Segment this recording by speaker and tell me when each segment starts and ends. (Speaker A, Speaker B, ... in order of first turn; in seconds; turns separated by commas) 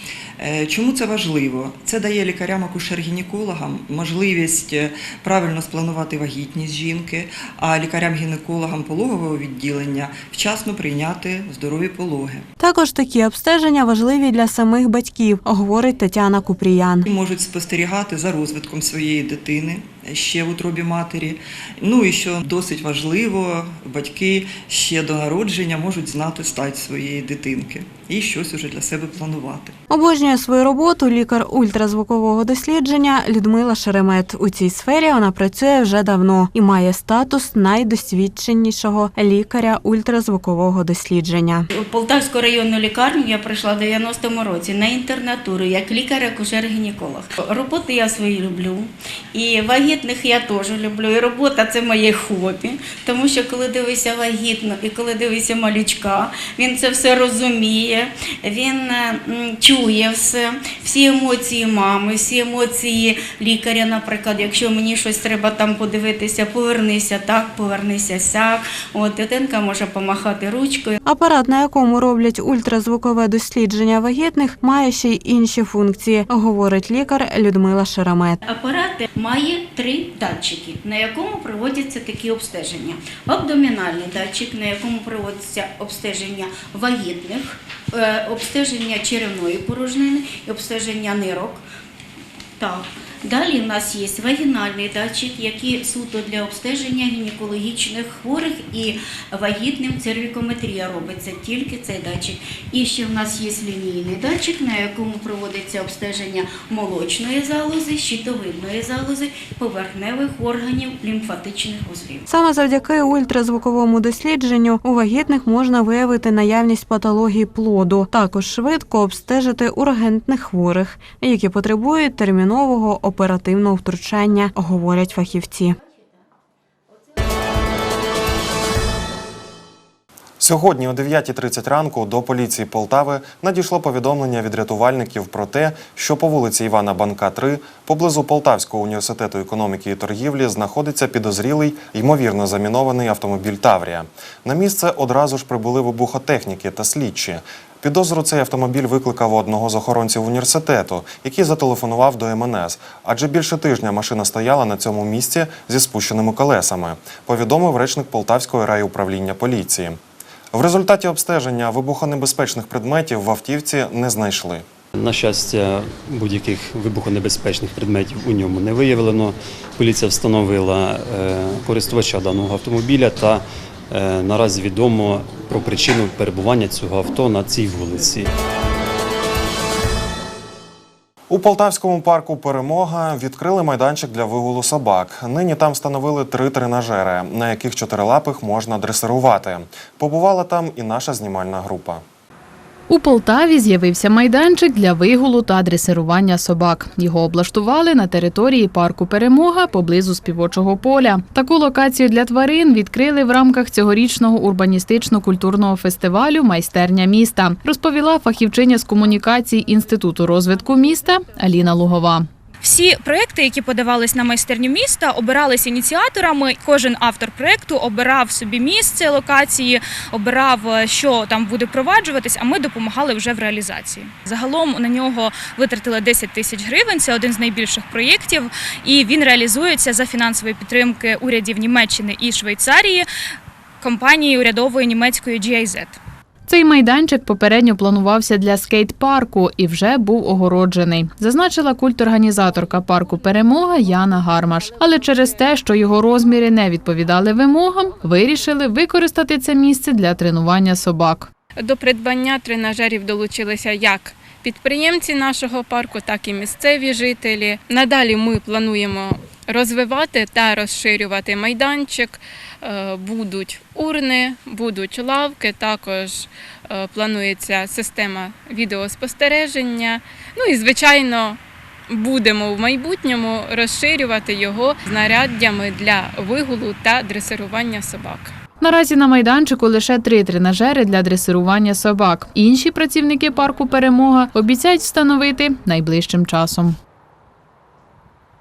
Speaker A: 0.4-12.5, Speaker B: 12.6-17.1, Speaker A: 17.1-29.8, Speaker B: 29.9-41.7, Speaker C: 41.7-71.0, Speaker B: 71.0-78.4, Speaker C: 78.5-91.6, Speaker C: 92.6-112.2, Speaker B: 112.3-125.8, Speaker D: 130.4-160.0, Speaker D: 160.5-164.7, Speaker E: 164.9-178.3, Speaker D: 181.3-192.0, Speaker F: 192.9-212.3, Speaker G: 212.6-233.1, Speaker G: 233.8-236.0, Speaker F: 236.5-251.3, Speaker H: 251.6-271.4, Speaker H: 271.9-278.3, Speaker F: 278.6-286.8